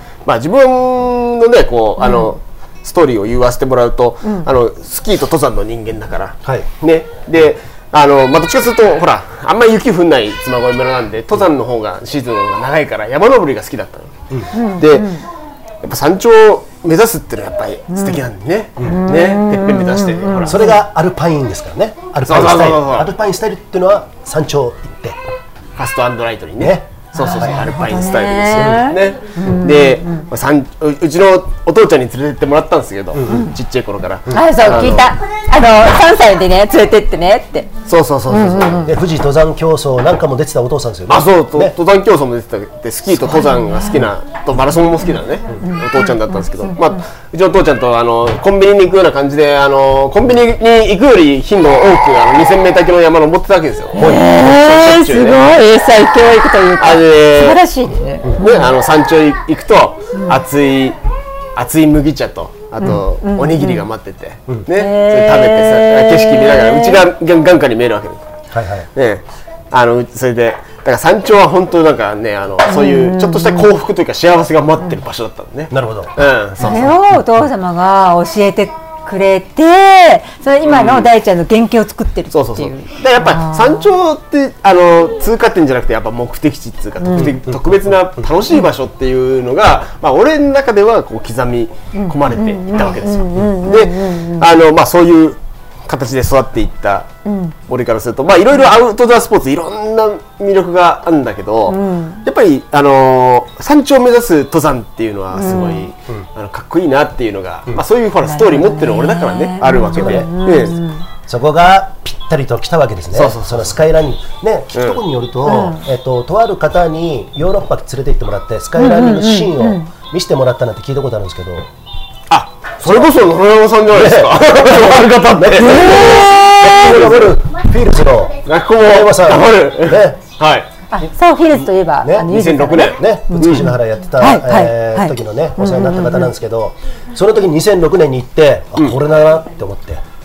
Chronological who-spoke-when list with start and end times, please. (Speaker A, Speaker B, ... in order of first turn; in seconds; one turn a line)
Speaker A: 0.2-15.1
Speaker B: 2.0-2.3
Speaker C: 6.5-6.7
Speaker B: 14.5-15.2
Speaker A: 15.8-20.6
Speaker B: 17.9-18.2
Speaker B: 18.8-20.8
Speaker C: 20.4-25.2
Speaker A: 22.3-23.1
Speaker A: 25.8-35.1
Speaker C: 26.6-27.6
Speaker B: 27.1-30.2
Speaker C: 28.5-28.9
Speaker C: 33.1-33.5
Speaker C: 34.3-34.7
Speaker B: 34.3-37.8
Speaker A: 37.9-38.9
Speaker B: 38.3-38.9
Speaker C: 38.9-41.8
Speaker A: 41.1-55.6
Speaker B: 43.2-44.0
Speaker B: 45.6-47.0
Speaker B: 54.0-58.7
Speaker C: 54.0-54.2
Speaker A: 56.8-57.6
Speaker A: 58.4-61.0
Speaker A: 61.6-68.2
Speaker B: 62.8-63.9
Speaker B: 64.7-67.0
Speaker C: 68.5-68.9
Speaker A: 69.0-76.9
Speaker B: 72.7-73.7
Speaker C: 75.7-76.1
Speaker B: 76.6-83.9
Speaker C: 76.8-77.2
Speaker A: 80.6-81.1
Speaker A: 82.3-97.1
Speaker B: 87.0-87.4
Speaker C: 87.2-88.3
Speaker B: 91.9-94.5
Speaker B: 97.3-97.5
Speaker A: 97.7-110.8
Speaker B: 101.7-102.2
Speaker B: 105.3-105.9
Speaker B: 108.2-111.1
Speaker C: 109.9-110.5
Speaker C: 111.3-121.7
Speaker A: 113.1-113.8
Speaker A: 114.7-115.0
Speaker B: 115.5-115.8
Speaker B: 118.8-119.9
Speaker A: 122.3-127.4
Speaker C: 122.8-123.1
Speaker C: 123.9-130.2
Speaker B: 125.6-126.9
Speaker A: 128.4-130.7
Speaker B: 130.9-136.3
Speaker C: 132.0-132.3
Speaker A: 132.3-133.7
Speaker C: 132.9-140.0